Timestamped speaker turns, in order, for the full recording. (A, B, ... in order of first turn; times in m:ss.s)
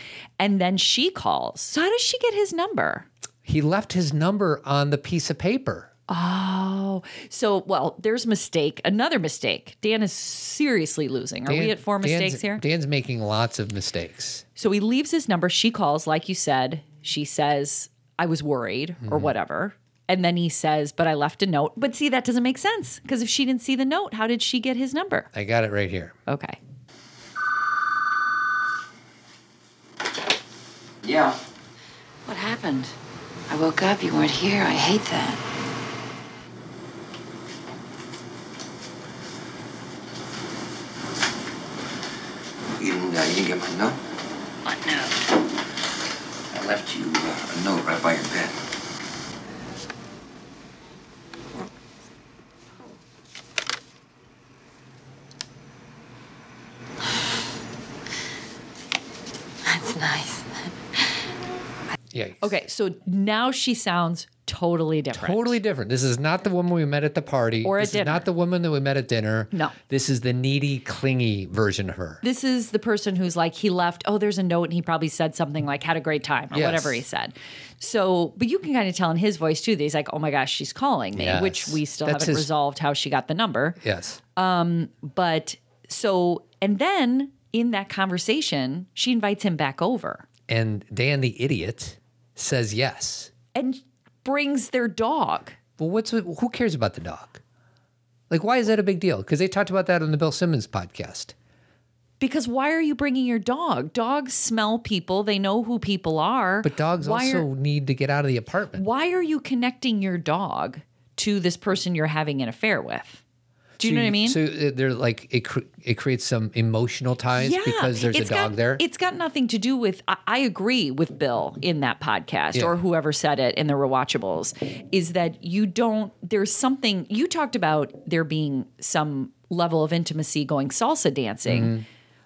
0:00.4-0:03.1 A
0:03.4-0:05.9 B
0:06.1-0:12.6 A
0:11.4-0:14.4 B
0:14.6-0:25.3 A
0:19.0-0:19.3 B
0:25.3-0:26.2 B
0:26.3-0:26.6 A
0:32.3-0:32.9 C
0:33.5-0:35.4 C
0:42.8-0:44.0 D
0:46.5-0:48.6 D
0:59.7-1:00.4 C
1:02.1-1:02.5 B
1:02.4-1:05.6 A
1:05.1-1:12.2 B
1:07.6-1:08.3 A
1:12.2-1:23.8 A
1:16.5-1:17.0 B
1:21.1-1:22.5 B
1:23.8-1:24.2 B
1:24.4-1:30.2 A
1:30.5-1:33.3 B
1:33.5-1:35.6 A
1:35.8-1:37.4 B
1:38.3-1:41.3 B
1:42.2-1:47.5 A
1:46.6-1:48.8 B
1:48.7-1:53.2 A
1:53.8-1:54.4 A
1:53.8-1:58.8 B
1:57.4-2:11.7 A
2:11.4-2:11.8 B